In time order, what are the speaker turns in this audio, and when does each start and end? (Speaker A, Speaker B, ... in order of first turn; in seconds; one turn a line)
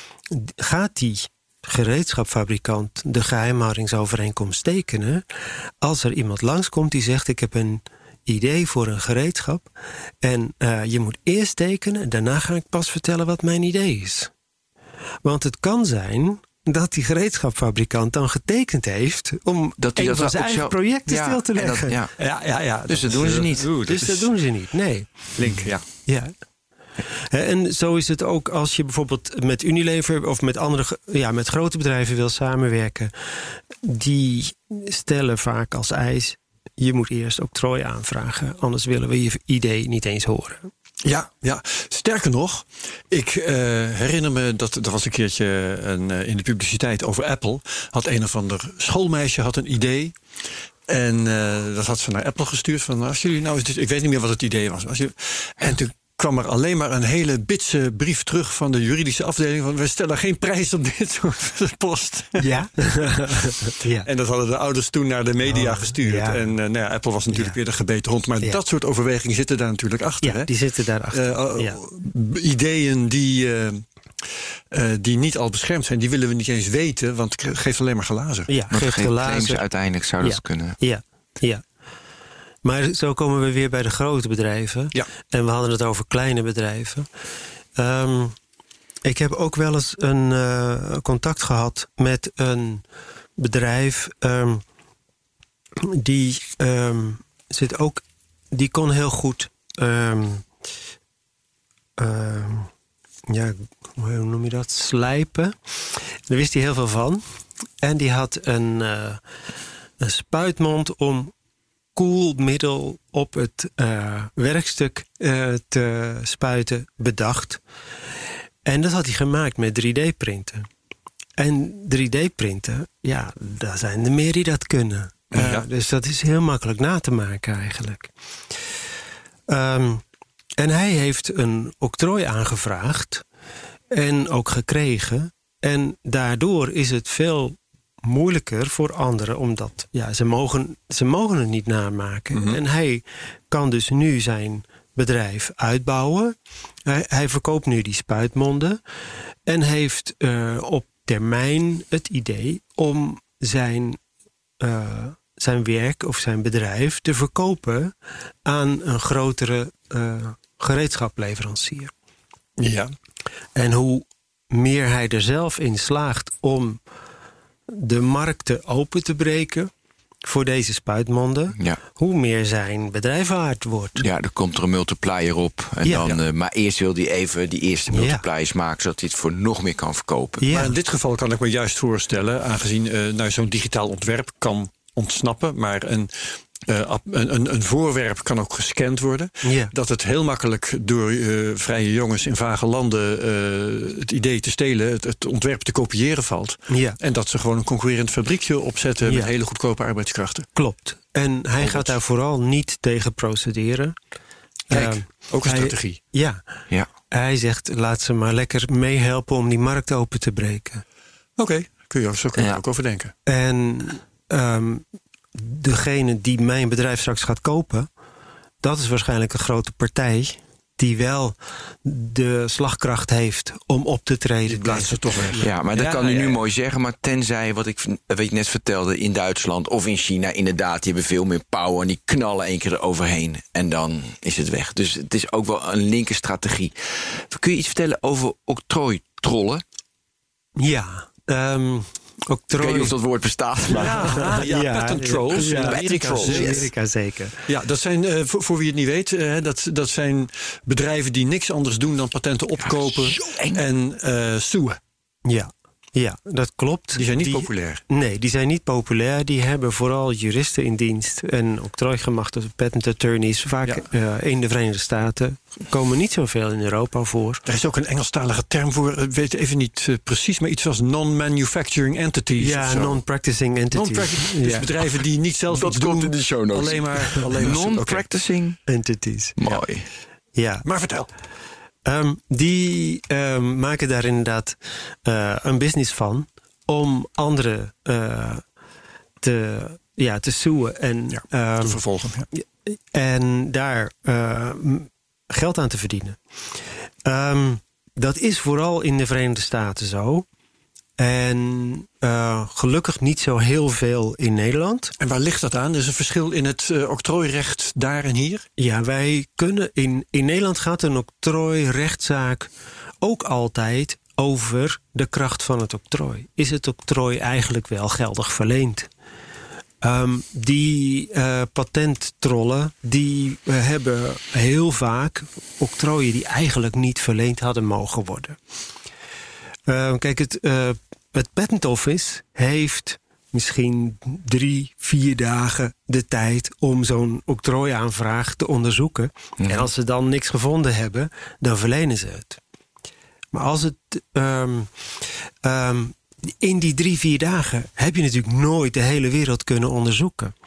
Speaker A: 0.3-5.2
Speaker A: 5.8-14.3
Speaker A: 15.2-22.0
Speaker B: 19.8-22.1
Speaker C: 22.2-24.3
Speaker B: 22.9-23.7
Speaker A: 23.9-25.1
Speaker C: 25.4-25.8
Speaker A: 26.1-26.3
Speaker A: 27.3-33.1
Speaker A: 33.8-40.7
Speaker C: 41.0-50.1
Speaker C: 50.9-62.5
Speaker A: 62.4-64.1
Speaker C: 64.0-70.5
Speaker A: 65.5-66.4
Speaker A: 70.2-71.8
Speaker C: 71.1-73.8
Speaker C: 74.7-78.5
Speaker A: 78.5-79.6
Speaker B: 78.7-80.8
Speaker A: 80.2-81.6
Speaker A: 82.6-87.1
Speaker A: 87.8-88.4
Speaker A: 89.0-92.8
Speaker A: 93.4-94.6
Speaker A: 95.8-100.5
Speaker A: 102.0-102.7
Speaker A: 103.3-105.6
Speaker A: 106.3-107.2
Speaker A: 107.8-109.2
Speaker A: 110.0-111.3
Speaker A: 112.0-117.6
Speaker A: 118.7-120.7
Speaker A: 121.4-128.1
Speaker C: 125.3-125.7
Speaker A: 129.5-130.0
Speaker A: 130.6-133.2
Speaker A: 133.9-146.3
Speaker A: 146.9-148.8
Speaker A: 149.5-154.0
Speaker A: 154.6-157.9
Speaker A: 158.4-161.9
Speaker C: 162.6-162.9
Speaker A: 163.6-166.8
Speaker A: 167.7-169.7
Speaker A: 170.2-174.1
Speaker B: 174.0-180.5
Speaker A: 175.8-176.2
Speaker A: 177.9-178.2
Speaker A: 180.4-180.7
Speaker C: 180.5-200.5
Speaker A: 189.4-189.7
Speaker A: 196.7-197.0
Speaker A: 200.6-203.9
Speaker C: 201.6-201.9
Speaker A: 204.7-206.4
Speaker C: 204.7-206.0
Speaker A: 207.1-210.8
Speaker C: 211.4-213.1
Speaker A: 213.3-214.8
Speaker A: 215.3-217.9
Speaker A: 218.6-225.5
Speaker C: 224.5-226.4
Speaker B: 225.4-239.6
Speaker A: 240.6-242.9
Speaker B: 242.6-244.3
Speaker C: 243.7-246.7
Speaker A: 243.8-247.5
Speaker B: 245.4-246.7
Speaker C: 247.5-254.8
Speaker B: 252.6-253.6
Speaker A: 255.3-267.4
Speaker C: 257.0-257.8
Speaker C: 267.5-273.0
Speaker A: 272.4-274.7
Speaker C: 273.7-278.1
Speaker B: 275.5-278.6
Speaker A: 278.7-279.4
Speaker B: 279.4-279.9
Speaker A: 280.4-280.7
Speaker C: 280.6-281.1
Speaker A: 281.9-288.4
Speaker A: 289.2-291.8
Speaker C: 291.1-292.3
Speaker A: 292.3-296.2
Speaker A: 297.1-300.3
Speaker A: 301.0-304.9
Speaker C: 305.0-308.5
Speaker A: 308.6-312.5
Speaker A: 313.0-318.9
Speaker A: 319.8-328.4
Speaker A: 329.7-342.4
Speaker B: 339.4-339.7
Speaker A: 343.3-344.7
Speaker A: 345.4-350.3